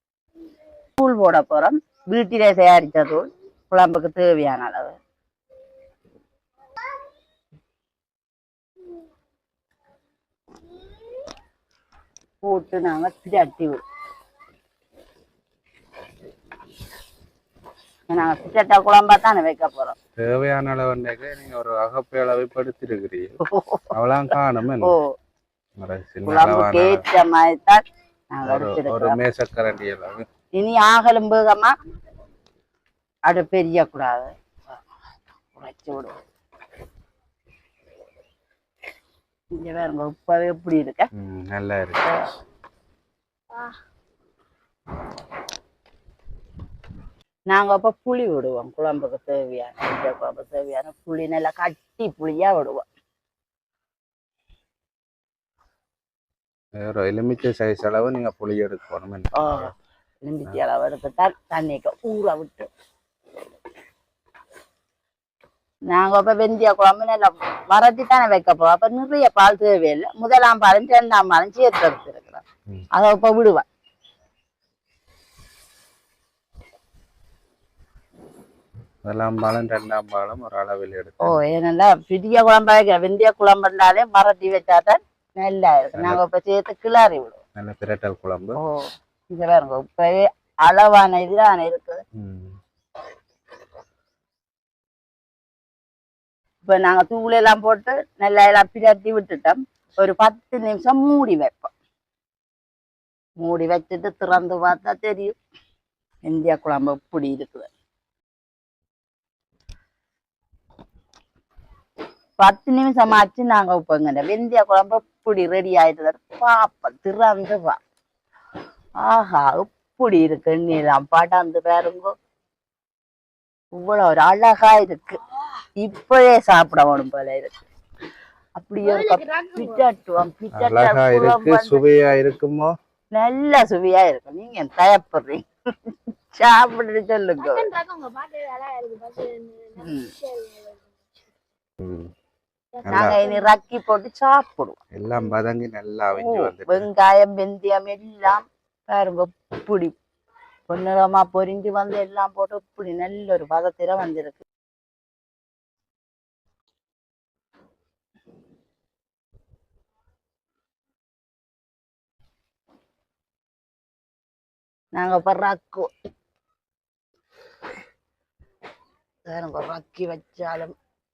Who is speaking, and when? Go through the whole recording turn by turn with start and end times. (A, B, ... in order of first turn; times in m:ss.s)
0:01.0-0:05.0 A
0:12.4-0:13.8 A
0:18.1-0:20.0 A
0:20.2-0:23.4 B
0:23.4-0:23.9 A
0:23.9-0:24.9 B
0:24.8-0:25.1 A
0:25.8-0:27.0 B
0:26.2-0:29.2 A
0:28.4-0:30.2 B
0:30.6-0:31.7 A
0:33.2-0:34.3 A
0:35.5-0:36.2 A
0:39.6-0:41.1 A
0:41.1-0:42.2 B
0:43.5-0:43.8 C
0:47.5-0:52.8 A
0:56.8-0:59.7 B
0:59.3-0:59.7 A
1:00.2-1:02.7 A
1:05.9-1:13.6 A
1:19.0-1:21.4 B
1:21.2-1:27.4 A
1:25.9-1:26.2 B
1:27.6-1:28.6 B
1:28.6-1:32.0 A
1:32.2-1:32.6 B
1:36.6-1:41.7 A
1:43.4-1:45.4 A
1:46.2-1:47.7 A
1:52.4-1:57.8 A
1:59.0-2:02.1 A
2:03.7-2:05.2 A
2:05.8-2:07.6 A
2:08.6-2:11.8 A
2:08.8-2:09.8 C
2:10.5-2:12.7 B
2:13.1-2:17.7 A
2:17.4-2:20.9 C
2:19.8-2:20.1 A
2:21.8-2:22.1 B
2:22.8-2:23.6 C
2:22.8-2:23.2 B
2:22.8-2:24.8 A
2:24.9-2:26.9 B
2:26.2-2:29.9 A
2:30.7-2:34.4 A
2:44.9-2:45.9 A
2:49.2-2:50.7 A